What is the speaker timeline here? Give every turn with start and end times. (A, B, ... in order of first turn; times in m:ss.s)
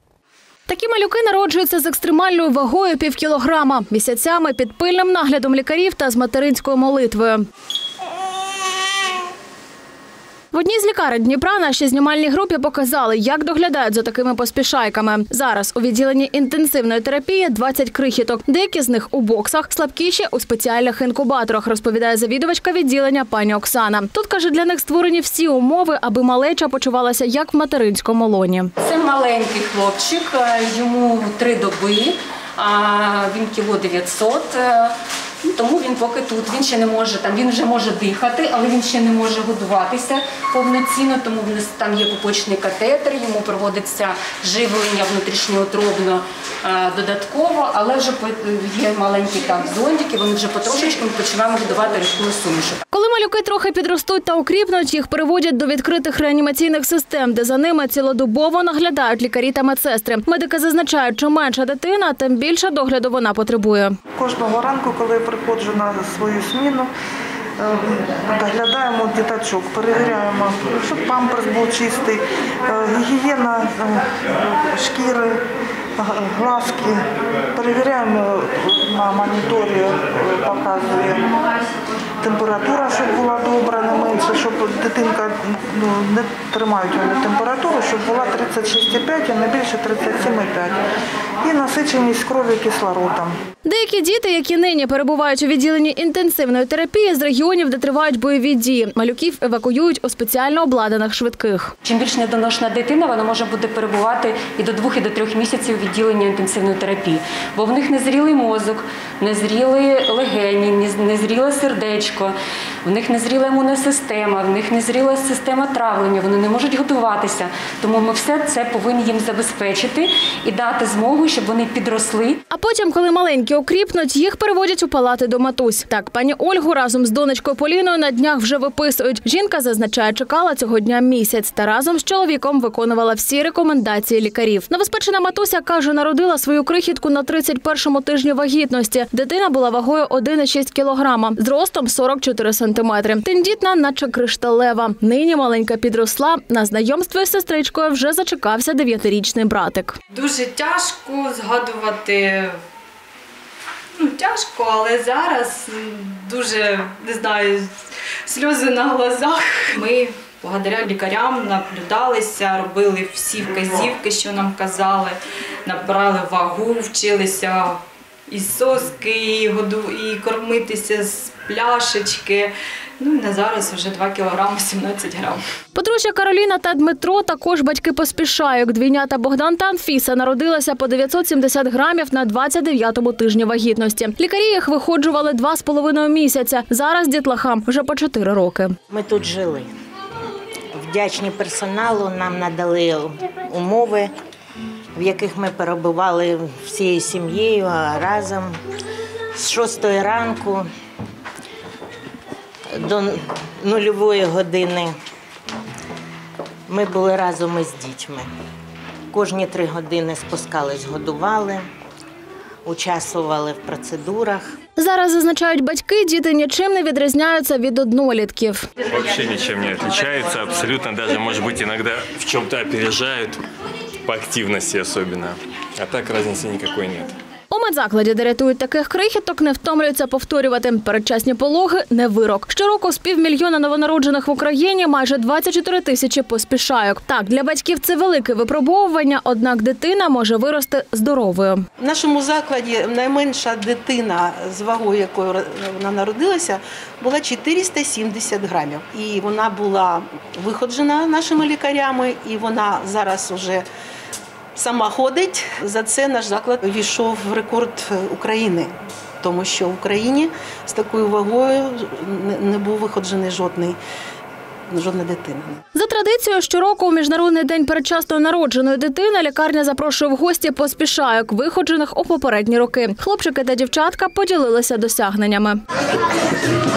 0:00.7-0:07.4 A
0:10.5-0:28.7 A
0:28.8-0:52.8 B
0:52.9-1:04.0 A
1:04.2-1:06.9 C
1:07.6-1:15.4 C
1:16.0-1:21.3 C
1:22.2-1:30.8 C
1:31.4-1:33.4 C
1:33.6-1:41.7 A
1:41.8-1:52.3 B
1:52.8-2:02.4 B
2:02.5-2:30.0 A
2:30.1-2:32.6 D
2:34.0-2:55.4 D
2:55.8-3:08.8 A
3:08.9-3:09.7 E
3:10.7-3:14.1 E
3:15.0-3:18.6 E
3:19.3-3:20.7 E
3:22.7-3:25.0 E
3:26.7-3:28.3 E
3:29.1-3:31.7 E
3:32.6-3:34.6 E
3:34.8-3:38.6 A
3:38.9-3:43.5 F
3:44.0-3:47.1 F
3:47.5-4:01.6 A
4:01.8-4:13.7 G
4:14.6-4:23.8 G
4:24.7-4:25.6 G
4:25.7-4:35.6 A